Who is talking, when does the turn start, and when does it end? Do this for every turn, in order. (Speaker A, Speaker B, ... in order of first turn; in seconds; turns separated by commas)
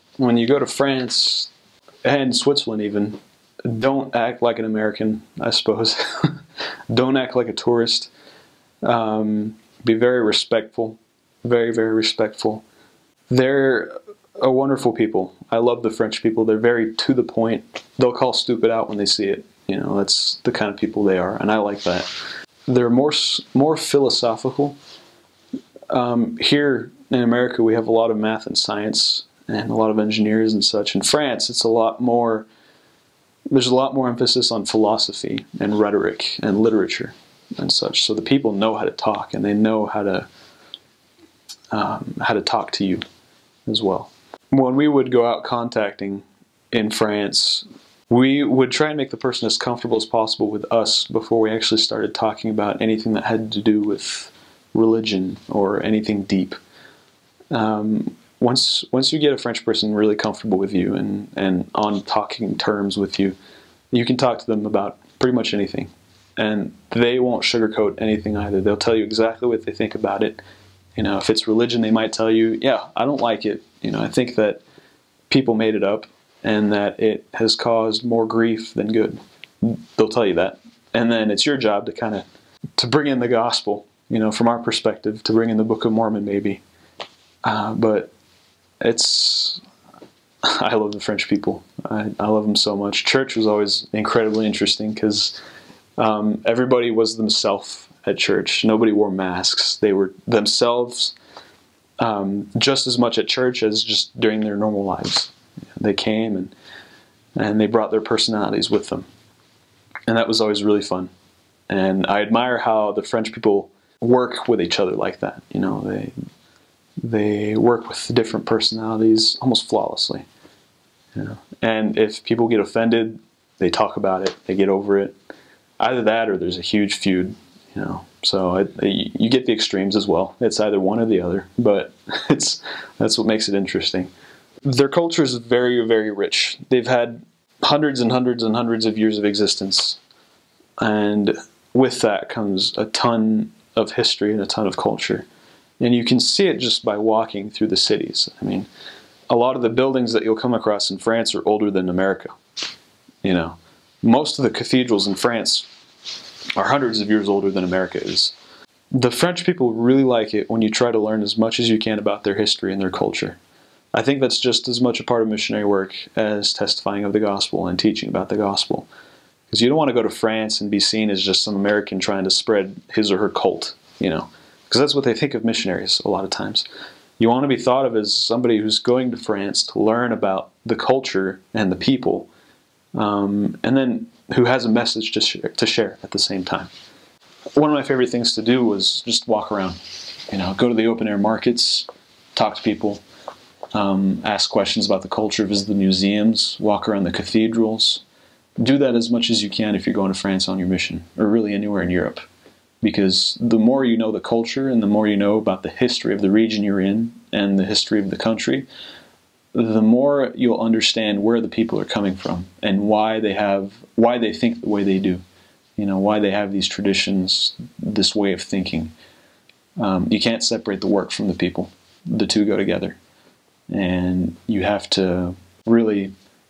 Speaker A: 0.2-1.5, Speaker A: 2.0-6.4, Speaker A: 6.9-8.1, Speaker A: 8.8-12.6, Speaker A: 13.3-22.1, Speaker A: 22.7-24.8, Speaker A: 25.9-32.5, Speaker A: 33.5-40.3, Speaker A: 41.7-43.0, Speaker A: 43.6-56.6, Speaker A: 57.5-63.4, Speaker A: 63.9-70.4, Speaker A: 71.0-74.6, Speaker A: 75.3-82.2, Speaker A: 82.8-86.6, Speaker A: 87.4-88.1, Speaker A: 88.8-89.6, Speaker A: 90.4-95.4, Speaker A: 96.0-101.1, Speaker A: 102.0-106.5, Speaker A: 107.3-109.1, Speaker A: 110.1-111.1, Speaker A: 111.7-116.1, Speaker A: 117.0-120.2, Speaker A: 121.1-125.1, Speaker A: 125.8-134.1, Speaker A: 134.6-140.0, Speaker A: 140.8-145.3, Speaker A: 145.8-148.7, Speaker A: 149.3-152.3, Speaker A: 153.2-155.7, Speaker A: 156.6-158.3, Speaker A: 158.9-163.4, Speaker A: 163.9-168.9, Speaker A: 169.5-176.7, Speaker A: 177.2-182.3, Speaker A: 182.9-186.7, Speaker A: 187.6-193.0, Speaker A: 193.7-198.0, Speaker A: 198.6-202.2, Speaker A: 202.8-208.7, Speaker A: 209.5-215.2, Speaker A: 215.8-218.9, Speaker A: 219.8-223.0, Speaker A: 223.7-226.1